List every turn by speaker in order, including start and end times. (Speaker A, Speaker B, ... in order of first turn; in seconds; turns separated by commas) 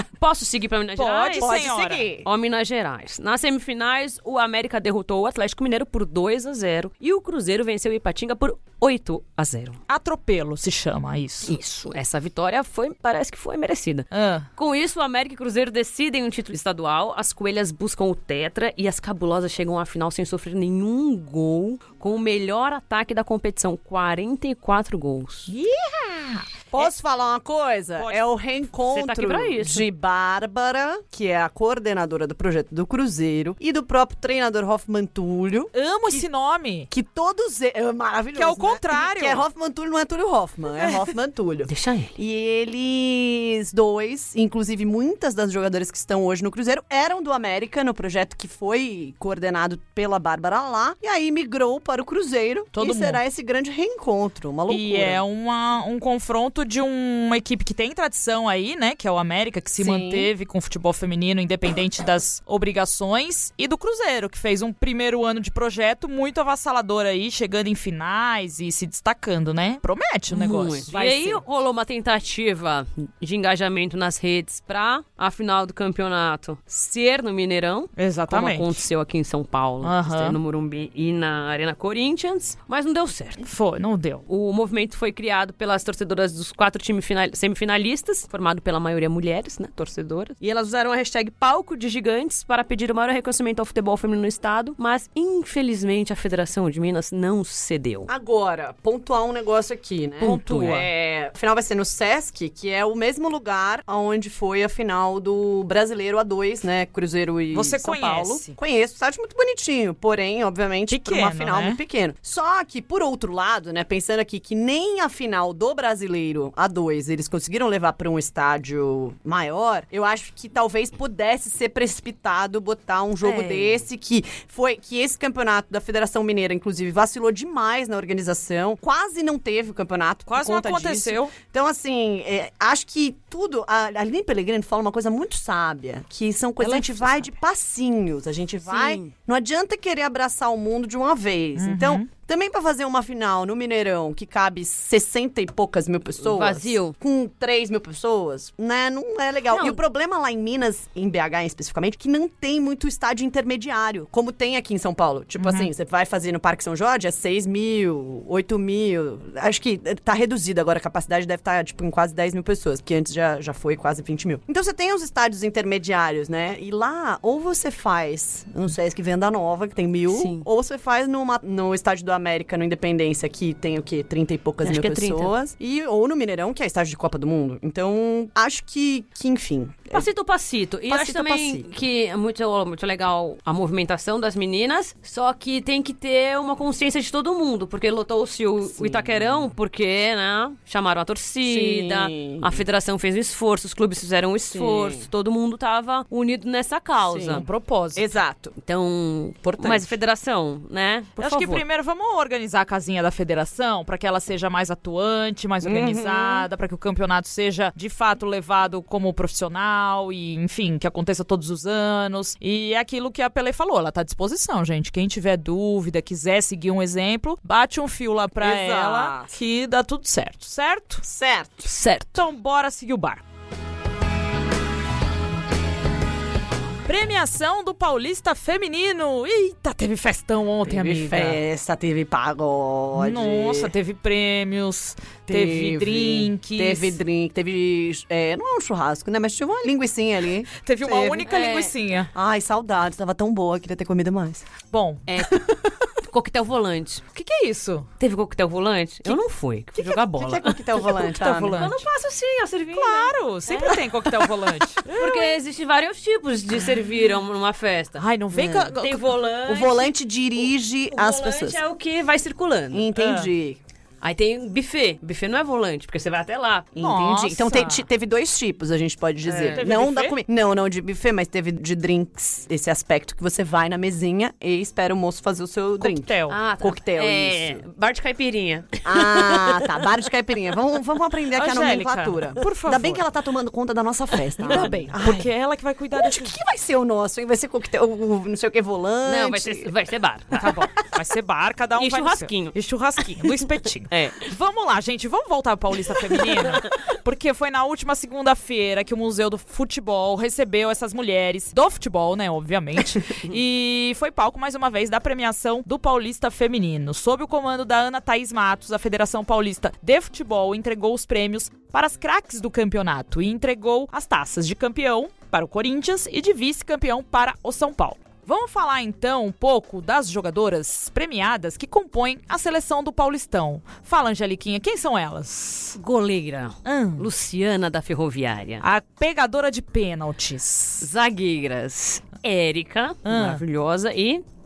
Speaker A: 0.2-1.7, Speaker B: 1.0-2.1, Speaker C: 1.4-2.2, Speaker A: 2.2-9.8, Speaker B: 9.9-11.5, Speaker A: 11.5-25.5, Speaker B: 14.1-14.5, Speaker B: 25.5-26.9, Speaker C: 26.7-36.2, Speaker A: 28.9-29.8, Speaker B: 35.7-36.9, Speaker C: 36.9-55.2, Speaker B: 38.3-39.4, Speaker A: 41.7-42.1, Speaker B: 52.7-53.2, Speaker B: 54.7-71.4, Speaker C: 59.8-60.3, Speaker A: 70.3-83.5, Speaker B: 78.0-78.8, Speaker B: 79.8-80.4, Speaker B: 83.5-84.2, Speaker A: 84.3-98.1, Speaker C: 98.1-180.1, Speaker B: 100.2-100.9, Speaker B: 107.5-108.6, Speaker B: 110.9-111.8, Speaker A: 123.2-123.8, Speaker B: 130.3-131.3, Speaker B: 136.6-137.2, Speaker A: 138.7-139.1, Speaker B: 141.6-142.1, Speaker A: 146.2-146.9, Speaker B: 155.4-155.7, Speaker A: 170.1-170.4, Speaker A: 174.6-175.3, Speaker A: 179.9-197.4, Speaker C: 180.9-181.7, Speaker C: 188.7-189.5, Speaker C: 191.4-192.6, Speaker C: 194.5-195.1, Speaker C: 197.0-198.6, Speaker B: 197.3-198.1, Speaker A: 198.6-201.6, Speaker C: 199.5-199.9, Speaker B: 201.2-221.0, Speaker C: 205.6-206.5, Speaker C: 218.4-219.3, Speaker C: 221.0-221.7, Speaker A: 221.7-222.2, Speaker B: 222.1-223.2, Speaker B: 226.8-231.4, Speaker C: 230.7-233.7, Speaker B: 232.9-237.0, Speaker C: 235.3-244.5, Speaker B: 240.6-242.1, Speaker A: 241.3-241.6, Speaker B: 244.7-245.1, Speaker A: 245.1-245.4, Speaker C: 245.2-245.4, Speaker A: 246.1-247.0, Speaker B: 247.1-247.9, Speaker A: 248.0-250.6, Speaker C: 249.8-251.7, Speaker B: 250.7-251.8, Speaker A: 251.5-253.8, Speaker B: 252.7-255.3, Speaker A: 254.9-262.9, Speaker B: 258.0-259.0, Speaker C: 259.5-261.6, Speaker C: 262.7-263.6, Speaker B: 262.9-263.3, Speaker A: 264.0-266.7, Speaker C: 266.7-277.6, Speaker B: 266.8-267.8, Speaker A: 269.3-269.6, Speaker B: 269.4-270.2, Speaker B: 275.8-276.4, Speaker A: 276.3-279.7, Speaker C: 278.8-285.3, Speaker B: 281.4-283.0, Speaker B: 284.4-286.3, Speaker C: 285.9-289.7, Speaker A: 289.1-290.5, Speaker B: 290.4-325.8, Speaker A: 291.8-292.6, Speaker A: 293.2-294.2, Speaker A: 325.8-328.6, Speaker B: 326.6-327.1, Speaker B: 328.6-330.9, Speaker A: 330.8-334.2, Speaker B: 333.0-333.4